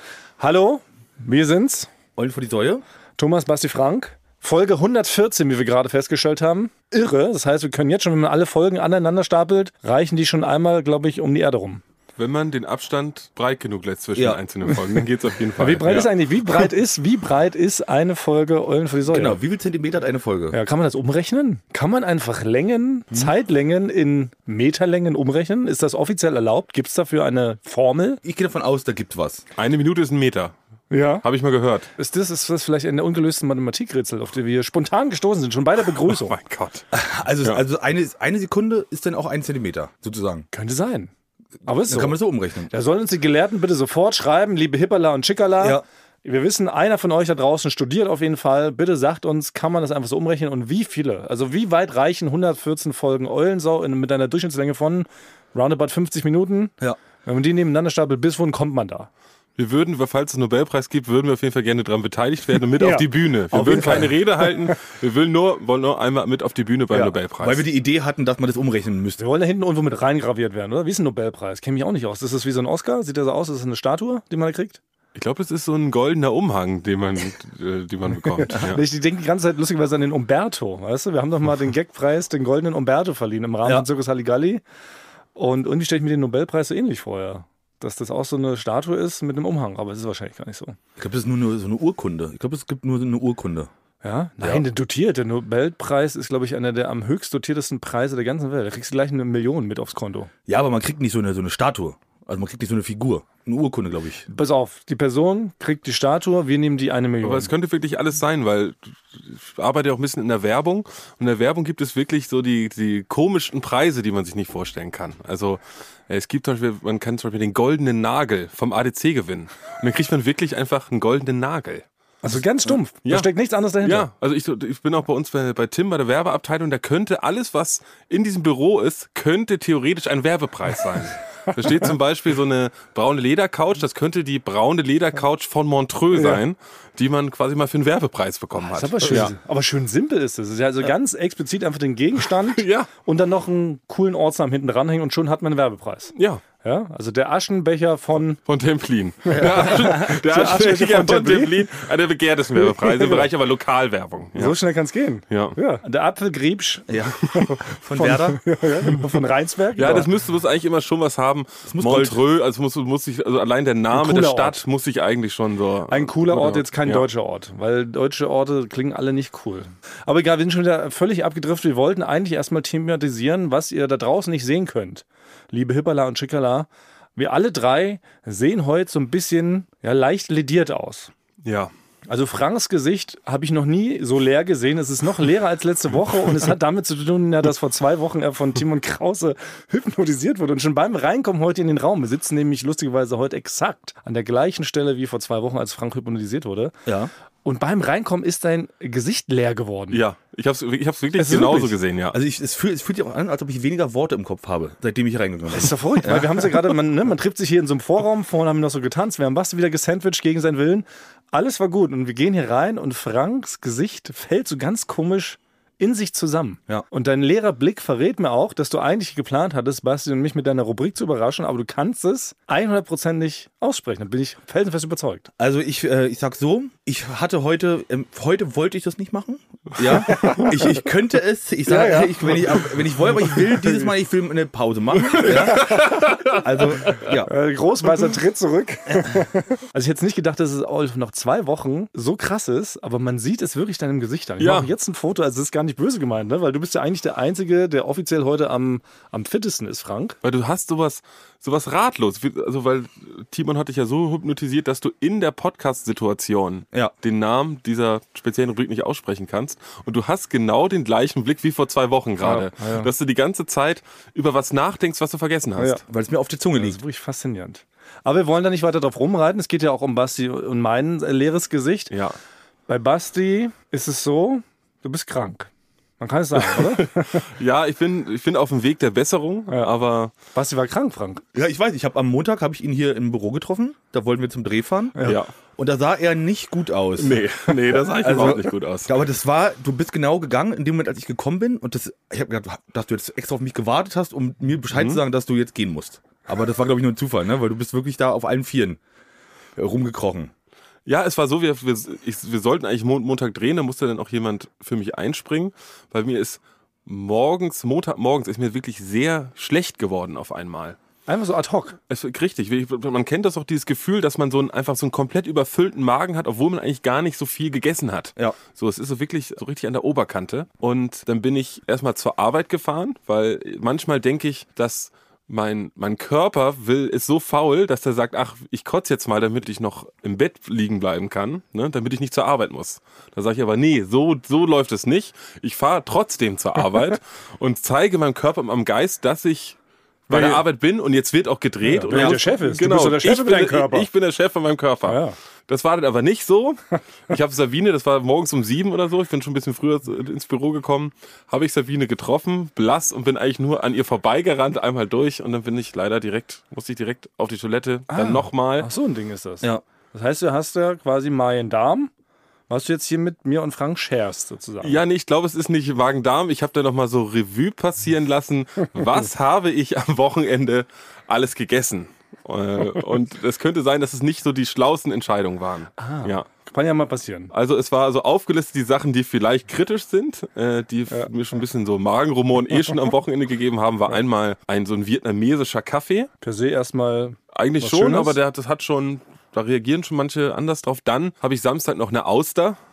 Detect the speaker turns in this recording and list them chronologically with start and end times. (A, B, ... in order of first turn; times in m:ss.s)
0:00.4-0:01.9 A
0:02.2-0:02.8 B
0:03.2-0:11.8 A
0:12.2-0:16.1 C
0:15.6-0:19.4 A
0:19.1-0:20.6 B
0:20.5-0:28.2 A
0:28.2-0:29.4 B
0:29.6-0:30.5 C
0:30.9-0:31.2 A
0:31.2-0:31.9 C
0:32.0-0:36.4 A
0:36.0-0:36.8 C
0:36.9-0:40.4 B
0:40.5-0:41.1 A
0:41.6-0:42.2 A
0:41.9-0:42.7 B
0:42.7-0:59.1 A
0:59.6-1:07.6 C
1:02.8-1:04.8 A
1:03.6-1:04.1 B
1:06.9-1:09.2 B
1:09.2-1:14.8 A
1:15.1-1:18.8 C
1:18.2-1:24.6 A
1:25.4-1:30.8 A
1:31.0-1:33.7 B
1:34.0-1:40.3 A
1:40.5-1:44.2 B
1:44.3-1:47.5 A
1:47.2-2:01.8 C
2:02.2-2:04.1 A
2:03.0-2:03.3 C
2:03.8-2:19.3 C
2:18.6-2:28.4 A
2:22.6-2:22.9 C
2:26.2-2:26.4 C
2:28.5-2:34.6 C
2:29.2-2:31.7 A
2:29.3-2:30.1 B
2:32.6-2:33.3 A
2:34.4-2:40.1 A
2:35.3-2:35.6 C
2:36.9-2:38.4 B
2:39.8-2:47.0 C
2:41.6-2:42.2 B
2:43.9-2:44.6 A
2:45.9-3:01.1 A
3:01.4-3:01.7 C
3:02.1-3:16.7 A
3:16.8-3:17.1 B
3:17.4-3:20.0 A
3:19.9-3:22.2 C
3:21.2-3:21.8 A
3:22.1-3:26.8 B
3:25.5-3:45.3 A
3:45.4-3:57.3 B
3:49.9-3:50.8 A
3:51.6-3:53.9 A
3:55.0-3:57.1 C
3:55.2-3:56.1 A
3:57.3-4:10.2 A
3:58.9-3:59.2 B
4:04.4-4:04.7 C
4:10.2-4:25.8 C
4:22.2-4:22.9 A
4:25.8-4:26.8 B
4:26.5-4:31.9 A
4:32.7-4:37.3 A
4:36.4-4:40.1 C
4:40.2-4:41.2 A
4:41.3-4:45.0 B
4:45.0-4:45.2 A
4:45.6-4:47.2 B
4:47.0-4:48.9 C
4:48.0-4:58.8 B
4:54.7-4:55.0 C
4:59.6-5:00.3 B
5:00.8-5:10.8 C
5:11.0-5:11.8 A
5:11.9-5:39.6 C
5:40.1-5:40.4 A
5:40.1-5:58.7 C
5:41.6-5:43.9 A
5:41.9-5:42.2 B
5:44.8-5:45.1 A
5:57.9-6:01.9 A
6:02.5-6:04.8 A
6:04.6-6:16.2 C
6:15.8-6:17.3 A
6:17.3-6:26.1 C
6:26.2-6:28.2 A
6:27.3-6:32.6 C